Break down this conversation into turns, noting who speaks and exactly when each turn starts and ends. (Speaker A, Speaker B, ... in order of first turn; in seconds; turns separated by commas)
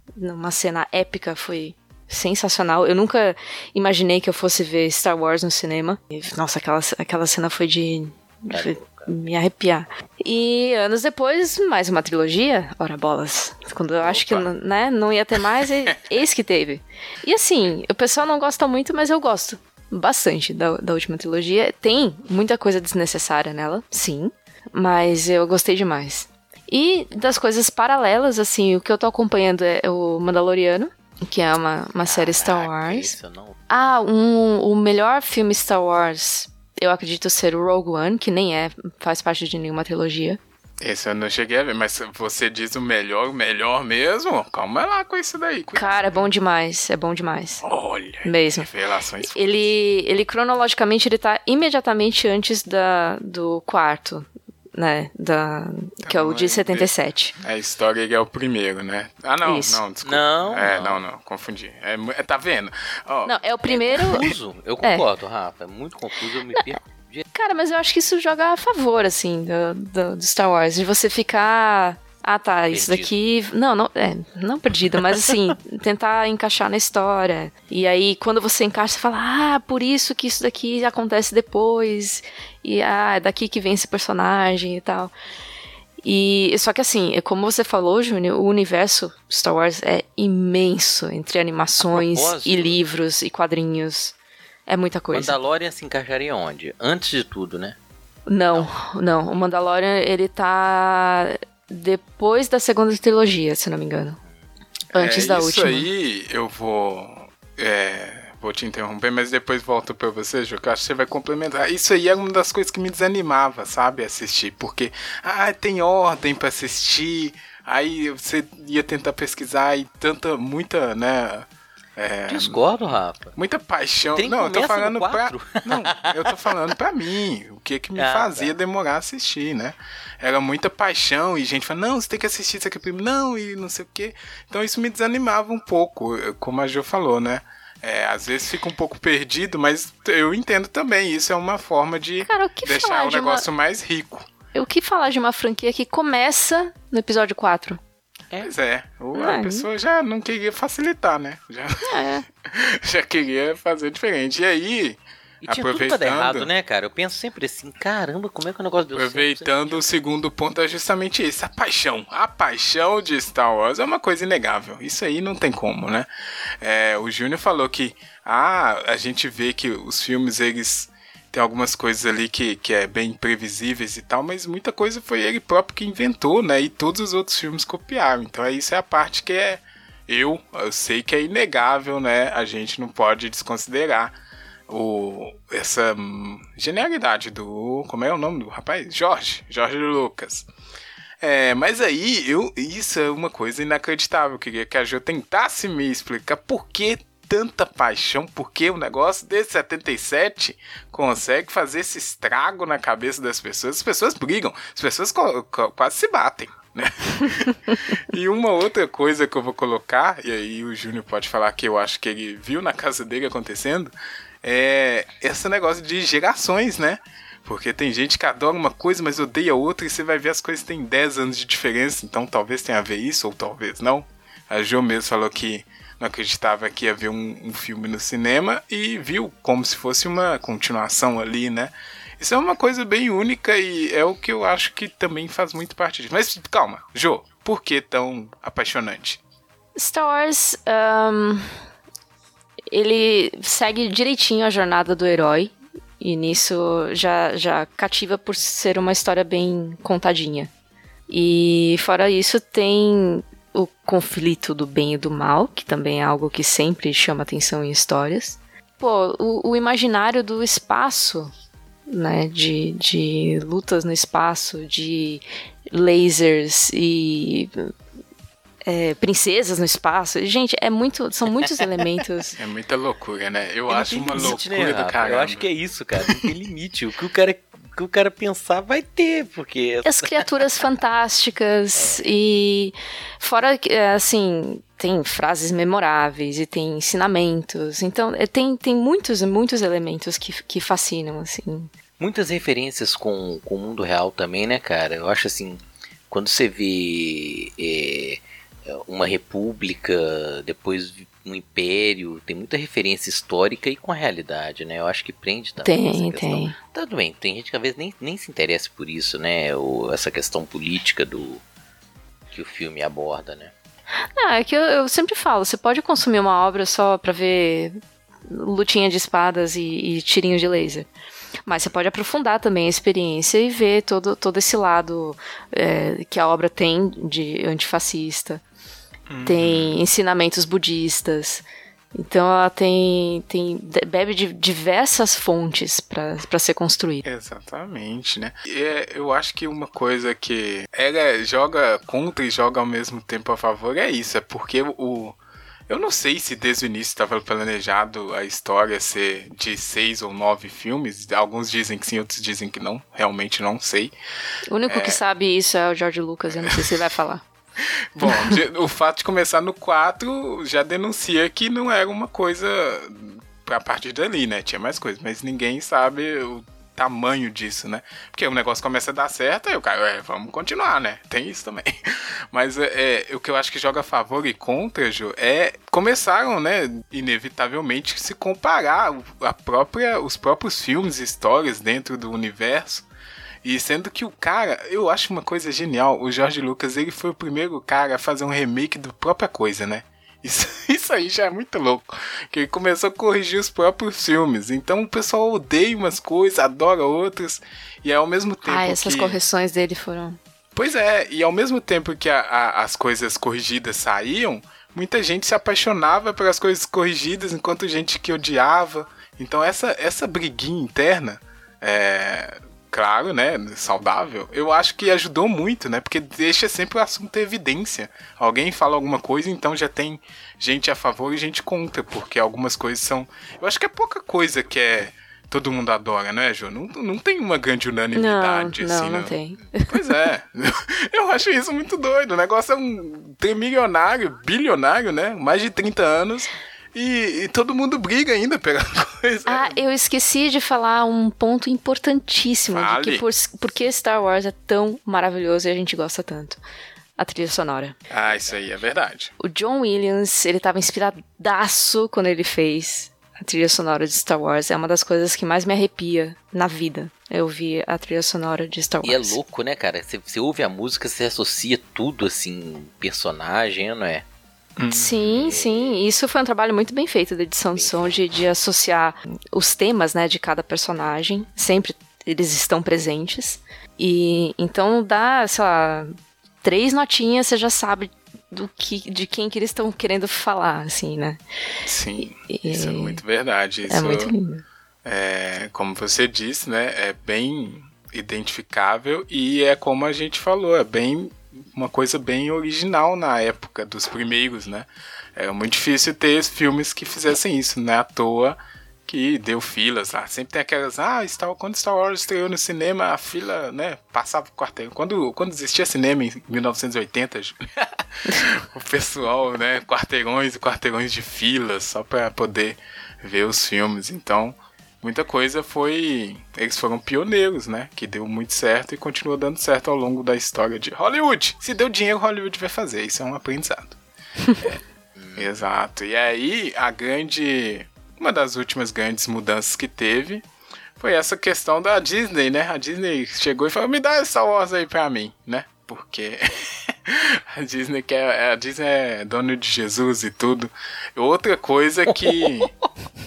Speaker A: 0.2-33.1, Speaker B: 8.5-9.1, Speaker B: 14.0-14.5, Speaker B: 32.0-33.6, Speaker A: 33.7-40.4, Speaker C: 40.8-46.3, Speaker A: 45.8-47.6, Speaker C: 47.6-49.6, Speaker A: 48.2-48.7, Speaker A: 49.2-57.4, Speaker C: 56.0-63.4, Speaker A: 59.4-59.8, Speaker B: 60.0-61.0, Speaker A: 63.2-65.0, Speaker B: 63.7-67.3, Speaker A: 67.3-85.1, Speaker B: 72.7-73.1, Speaker A: 86.0-94.2, Speaker B: 91.8-92.8, Speaker A: 94.7-95.3, Speaker B: 95.1-97.8, Speaker A: 98.3-104.2, Speaker A: 104.9-105.9, Speaker C: 104.9-122.6, Speaker B: 122.3-123.4, Speaker C: 123.3-144.3, Speaker B: 124.1-126.3, Speaker B: 128.0-128.6, Speaker A: 142.2-143.5, Speaker A: 144.6-147.8, Speaker C: 148.4-156.5, Speaker A: 149.2-149.7, Speaker A: 151.8-152.2, Speaker B: 155.4-159.9, Speaker C: 158.9-166.1, Speaker C: 166.6-184.2, Speaker C: 184.7-190.5, Speaker C: 191.2-239.2, Speaker A: 239.8-241.5, Speaker A: 242.7-250.5, Speaker A: 251.1-261.3, Speaker A: 261.9-267.7, Speaker A: 268.7-272.4, Speaker C: 272.4-275.5, Speaker B: 273.7-280.5, Speaker A: 279.8-291.7, Speaker B: 281.8-282.1, Speaker B: 292.0-311.4, Speaker A: 305.6-306.6, Speaker B: 312.3-313.5, Speaker A: 314.2-320.9, Speaker A: 321.5-328.4, Speaker C: 329.1-329.8, Speaker A: 329.2-337.0, Speaker C: 337.0-345.2, Speaker C: 345.7-353.9, Speaker A: 354.5-357.2, Speaker C: 354.7-355.0, Speaker C: 357.6-382.9, Speaker A: 358.0-358.4, Speaker C: 383.4-399.2, Speaker A: 398.4-400.2, Speaker C: 400.6-439.6, Speaker A: 427.9-429.7, Speaker A: 439.3-446.4, Speaker C: 442.5-443.0, Speaker A: 447.0-447.8, Speaker C: 447.9-449.1, Speaker B: 447.9-448.6, Speaker A: 449.2-459.2, Speaker B: 458.8-464.1, Speaker C: 464.6-465.1, Speaker A: 464.7-481.2, Speaker B: 465.0-465.8, Speaker B: 467.6-468.0, Speaker C: 481.6-484.1, Speaker A: 482.3-483.0, Speaker A: 483.7-484.4, Speaker C: 484.9-523.8, Speaker C: 524.4-524.6, Speaker B: 525.0-525.3, Speaker C: 525.2-530.3, Speaker C: 530.8-542.5, Speaker B: 541.9-542.5